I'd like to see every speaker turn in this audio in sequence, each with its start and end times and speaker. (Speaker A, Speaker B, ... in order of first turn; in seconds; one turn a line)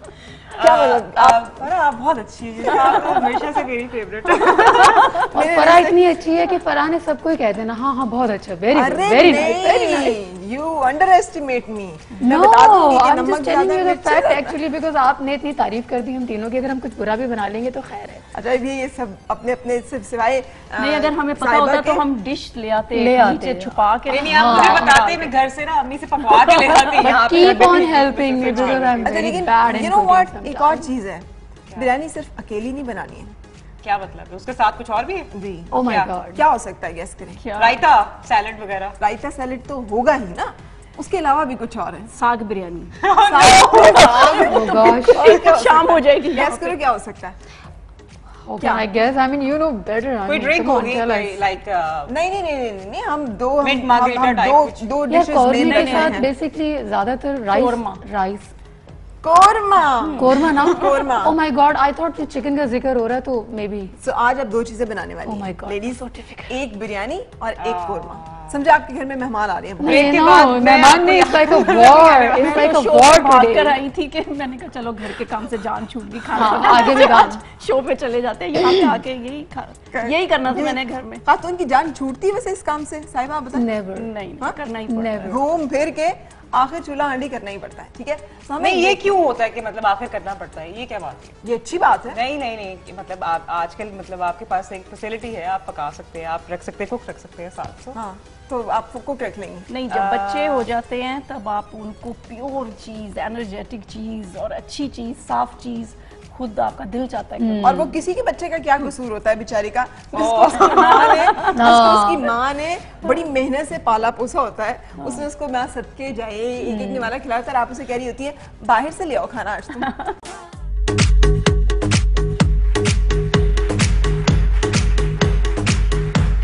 Speaker A: 0.5-5.3
Speaker B: 0.6-1.4
Speaker C: 4.3-5.2
Speaker B: 5.3-6.0
Speaker D: 5.3-10.2
Speaker B: 8.7-14.6
Speaker D: 12.2-18.3
Speaker B: 18.3-22.1
Speaker C: 20.8-25.4
Speaker D: 22.9-25.0
Speaker A: 24.1-29.5
Speaker C: 26.2-27.5
Speaker D: 27.0-30.9
Speaker B: 28.5-33.4
Speaker A: 33.8-36.1
Speaker B: 35.3-35.8
Speaker D: 35.7-36.4
Speaker B: 36.3-37.4
Speaker C: 37.4-37.8
Speaker A: 37.5-39.0
Speaker B: 39.0-42.1
Speaker C: 42.1-43.0
Speaker A: 43.0-44.6
Speaker B: 43.3-47.4
Speaker C: 43.6-46.8
Speaker D: 44.4-45.2
Speaker A: 45.2-45.6
Speaker D: 48.4-51.4
Speaker C: 48.6-48.9
Speaker A: 50.3-52.1
Speaker B: 52.1-56.3
Speaker A: 53.6-54.9
Speaker D: 55.1-58.5
Speaker C: 55.7-56.2
Speaker C: 57.5-58.0
Speaker B: 59.2-61.4
Speaker C: 60.0-60.3
Speaker D: 60.2-63.9
Speaker B: 64.0-70.5
Speaker D: 65.2-66.6
Speaker A: 67.6-68.6
Speaker D: 69.8-73.8
Speaker A: 69.8-72.7
Speaker C: 72.1-81.2
Speaker D: 76.3-77.4
Speaker D: 78.7-79.0
Speaker B: 79.9-83.7
Speaker D: 83.5-84.1
Speaker C: 84.0-85.4
Speaker D: 84.9-85.4
Speaker B: 85.2-89.1
Speaker A: 88.6-91.4
Speaker B: 91.4-92.2
Speaker A: 92.1-98.0
Speaker B: 97.9-99.7
Speaker C: 99.7-107.8
Speaker A: 99.9-100.7
Speaker D: 107.4-107.9
Speaker B: 107.6-119.9
Speaker A: 110.1-111.5
Speaker C: 110.6-111.5
Speaker D: 111.5-112.3
Speaker D: 116.6-117.1